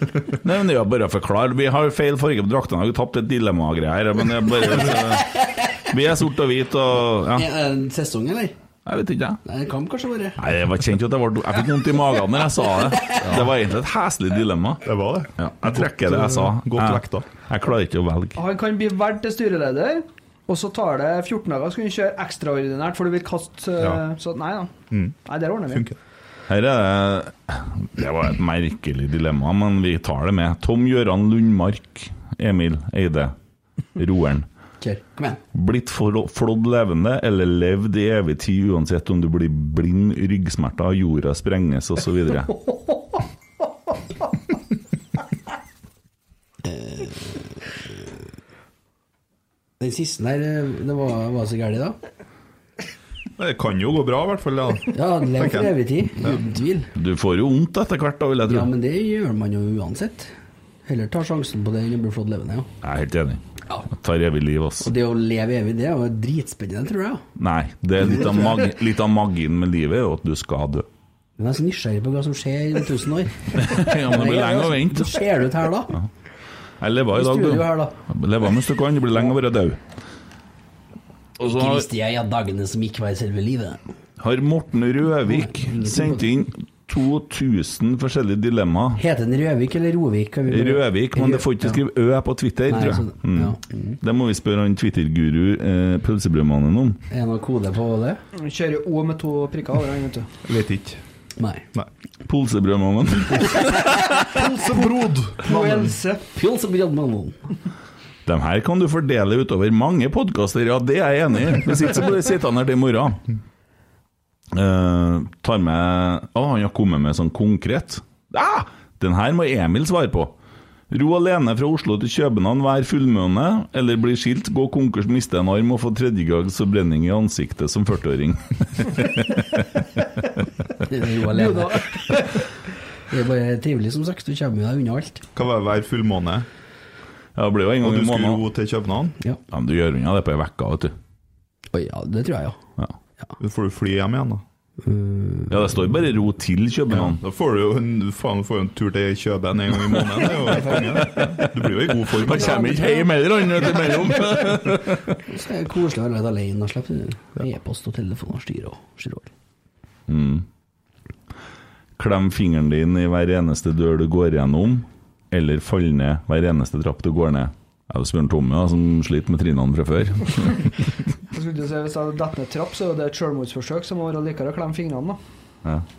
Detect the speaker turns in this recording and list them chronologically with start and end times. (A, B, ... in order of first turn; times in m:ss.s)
0:00.4-0:07.4 A
0:07.3-0:08.5 B
0:08.8-0:09.4 A
0:09.4-0:10.4 B
0:10.4-0:18.4 A
0:14.8-0:17.2 C
0:18.4-0:25.9 D
0:24.9-0:26.0 C
0:26.5-0:33.3 A
0:34.0-0:34.5 A
0:34.8-0:35.4 B
0:35.5-0:42.5 A
0:46.6-0:47.4 B
0:49.8-0:52.0 B
0:53.4-0:55.7 C
0:54.9-0:56.9 B
0:57.0-0:58.7 A
0:58.5-1:00.3 B
1:00.8-1:02.7 B
1:02.8-1:04.9 A
1:04.8-1:07.2 B
1:07.4-1:10.9 A
1:08.0-1:08.6 B
1:11.4-1:15.9 B
1:13.6-1:15.2 A
1:16.8-1:19.8 A
1:17.1-1:17.9 B
1:21.4-1:21.9 A
1:21.4-1:23.8 B
1:24.2-1:29.0 A
1:25.3-1:26.2 B
1:29.0-1:31.8 B
1:30.5-1:37.0 A
1:32.7-1:34.0 B
1:37.1-1:38.2 B
1:38.4-1:40.3 D
1:40.4-1:41.0 C
1:41.4-1:41.6 B
1:42.2-1:44.2 A
1:44.1-1:46.0 C
1:45.4-1:46.2 D
1:46.3-1:47.4 B
1:48.2-1:53.2 A
1:54.5-2:00.3 A
2:00.9-2:09.7 A
2:10.8-2:12.2 B
2:11.2-2:12.4 D
2:13.1-2:15.2 B
2:15.4-2:16.5 C
2:17.3-2:18.4 A
2:17.8-2:19.2 C
2:19.5-2:20.9 A
2:21.7-2:22.6 B
2:23.4-2:24.4 C
2:24.8-2:25.6 B
2:25.5-2:27.2 A
2:27.0-2:32.8 C
2:30.2-2:35.2 A
2:32.5-2:33.0 D
2:35.3-2:39.3 B
2:40.1-2:40.4 A
2:42.0-2:50.7 A
2:51.3-2:55.2 D